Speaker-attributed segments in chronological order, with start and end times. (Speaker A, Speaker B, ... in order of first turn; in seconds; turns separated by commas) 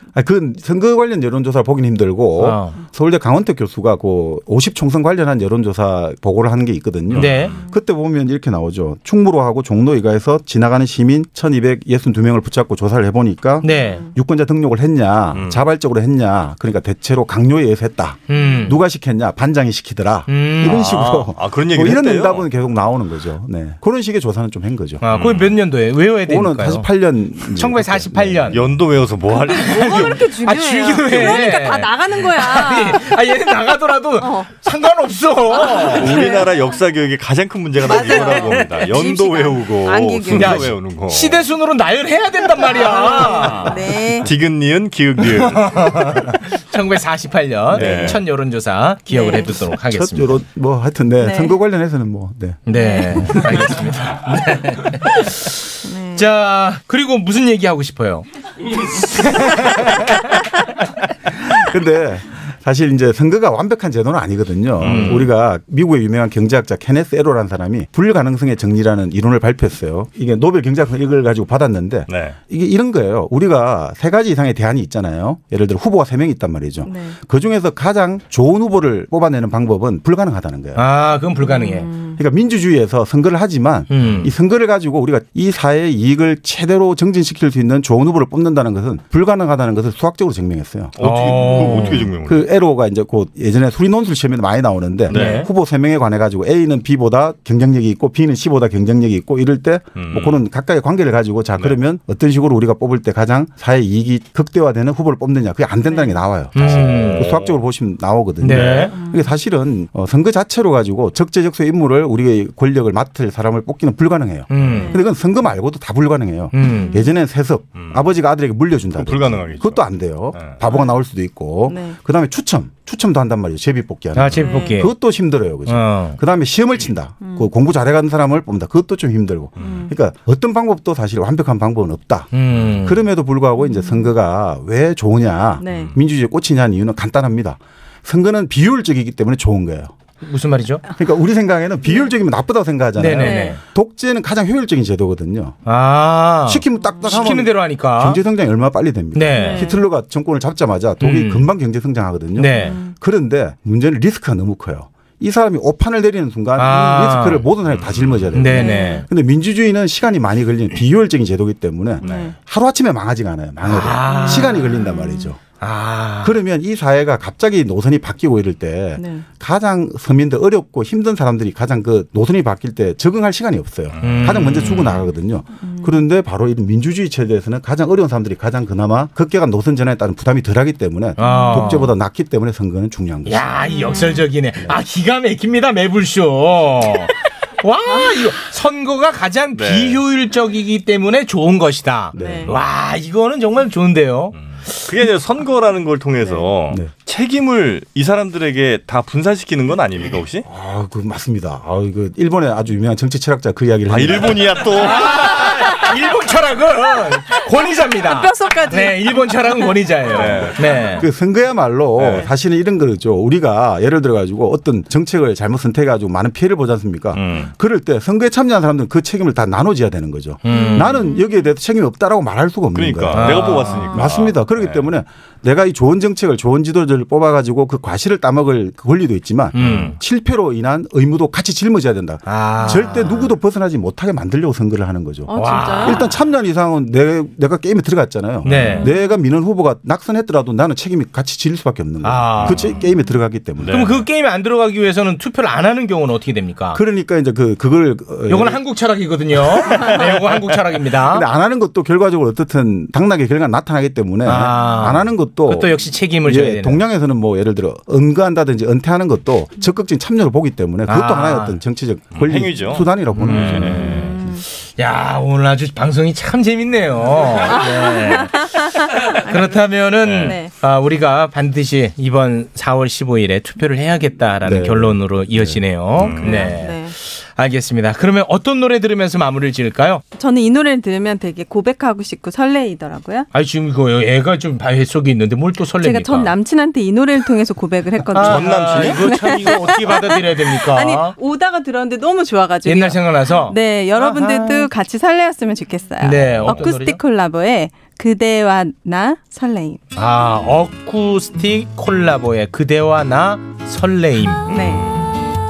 Speaker A: 0.1-25.0, Speaker B: 2.4-2.8, Speaker C: 7.1-7.7, Speaker B: 7.1-7.6, Speaker B: 13.6-14.1, Speaker D: 13.7-14.1, Speaker C: 15.3-15.7, Speaker B: 18.3-18.8, Speaker B: 20.3-21.0, Speaker C: 20.6-22.4, Speaker B: 25.0-26.9, Speaker C: 25.1-25.6, Speaker A: 26.2-28.6, Speaker B: 27.5-28.6, Speaker C: 28.5-30.2, Speaker D: 29.3-33.1, Speaker B: 29.5-36.3, Speaker C: 31.1-31.4, Speaker D: 34.2-34.5, Speaker D: 35.5-36.5, Speaker C: 35.8-41.4, Speaker D: 37.8-40.7, Speaker B: 37.9-39.0, Speaker B: 40.3-43.8, Speaker D: 42.9-44.3, Speaker C: 43.0-46.4, Speaker B: 45.2-50.4, Speaker C: 47.7-48.2, Speaker D: 47.8-48.1, Speaker D: 49.1-49.5, Speaker A: 49.9-52.6, Speaker D: 51.2-51.6, Speaker B: 52.7-55.6, Speaker D: 52.7-53.7, Speaker D: 55.9-56.3, Speaker B: 56.1-58.2, Speaker B: 59.2-60.0, Speaker A: 61.6-80.8, Speaker C: 64.8-65.3, Speaker B: 64.8-65.3, Speaker C: 72.1-72.4, Speaker D: 76.8-77.2, Speaker B: 80.8-81.9, Speaker D: 81.4-82.2, Speaker A: 82.2-91.0, Speaker B: 83.9-84.3, Speaker C: 84.0-84.3, Speaker C: 91.0-92.5, Speaker B: 91.0-92.1, Speaker A: 92.2-132.3, Speaker C: 95.1-95.5, Speaker B: 95.1-95.5, Speaker C: 100.0-100.4, Speaker D: 105.8-106.2, Speaker B: 106.5-107.3, Speaker C: 106.5-107.6, Speaker B: 108.4-108.9, Speaker C: 108.5-108.9, Speaker D: 108.9-109.3, Speaker B: 114.5-115.0, Speaker C: 114.5-114.9, Speaker D: 114.7-115.1, Speaker B: 116.5-117.0, Speaker D: 116.8-117.1, Speaker C: 117.7-118.1, Speaker C: 118.9-119.8, Speaker C: 120.3-120.6, Speaker D: 120.6-121.0, Speaker D: 121.7-122.0, Speaker B: 124.1-124.9, Speaker D: 124.4-124.8, Speaker B: 125.7-126.2, Speaker D: 127.2-127.5, Speaker C: 129.6-129.8, Speaker D: 129.6-129.9, Speaker B: 132.3-133.0, Speaker C: 132.5-132.9, Speaker A: 132.8-139.9, Speaker D: 133.6-134.1, Speaker D: 135.6-136.0, Speaker C: 135.7-136.0, Speaker B: 140.2-140.8, Speaker A: 140.9-145.6, Speaker D: 141.8-142.1, Speaker B: 143.0-143.6, Speaker D: 143.2-143.6, Speaker B: 145.7-148.2, Speaker A: 146.5-165.4, Speaker D: 146.7-147.3, Speaker B: 149.1-149.6, Speaker D: 149.3-149.8, Speaker B: 151.0-151.5, Speaker B: 152.4-152.8, Speaker D: 152.5-153.0, Speaker B: 156.6-157.4, Speaker C: 157.7-158.3, Speaker B: 158.3-159.1, Speaker D: 158.5-159.0, Speaker D: 162.0-162.3, Speaker C: 162.0-162.3, Speaker B: 163.6-164.7, Speaker D: 164.1-165.3, Speaker B: 165.6-166.4, Speaker A: 166.2-183.6, Speaker D: 169.0-169.3, Speaker C: 174.0-174.3, Speaker B: 174.0-175.1, Speaker D: 175.5-176.1, Speaker D: 181.2-181.9, Speaker B: 181.2-181.9, Speaker B: 183.2-194.3, Speaker D: 183.6-184.3, Speaker D: 187.9-188.2, Speaker C: 189.5-190.0, Speaker D: 192.1-192.5, Speaker A: 192.1-192.5, Speaker C: 194.4-200.4, Speaker D: 196.2-196.5, Speaker A: 200.4-204.6, Speaker C: 203.9-205.5, Speaker B: 204.7-211.0, Speaker D: 207.3-210.3, Speaker C: 210.1-210.9, Speaker A: 211.0-243.9, Speaker C: 212.0-212.3, Speaker C: 217.1-217.5, Speaker B: 220.4-221.1, Speaker D: 220.5-221.5, Speaker C: 222.7-224.9, Speaker B: 223.1-224.0, Speaker B: 229.5-229.9, Speaker C: 229.6-230.0, Speaker B: 232.2-233.3, Speaker D: 235.3-236.1, Speaker B: 235.3-236.1, Speaker C: 238.4-238.8, Speaker B: 238.4-238.9, Speaker D: 238.8-239.2, Speaker B: 242.0-242.7, Speaker C: 242.3-242.8, Speaker C: 243.6-244.1, Speaker B: 243.7-246.8, Speaker A: 246.7-248.6, Speaker B: 248.3-251.2, Speaker C: 249.6-250.6, Speaker A: 251.1-264.0, Speaker B: 254.2-256.8, Speaker B: 260.9-261.6, Speaker C: 262.1-264.1, Speaker B: 263.2-264.2, Speaker D: 264.1-264.4, Speaker B: 264.8-268.5, Speaker D: 267.4-269.6, Speaker B: 269.2-280.0, Speaker C: 270.0-270.4, Speaker D: 270.1-270.5, Speaker A: 274.4-275.6, Speaker C: 275.9-276.5, Speaker D: 276.2-276.9, Speaker D: 280.1-283.3, Speaker B: 283.3-286.3, Speaker D: 285.8-299.8, Speaker B: 288.1-291.1, Speaker C: 288.1-289.6, Speaker B: 292.6-294.7, Speaker B: 296.0-297.0, Speaker B: 299.9-304.5, Speaker C: 304.5-305.0, Speaker D: 304.5-304.9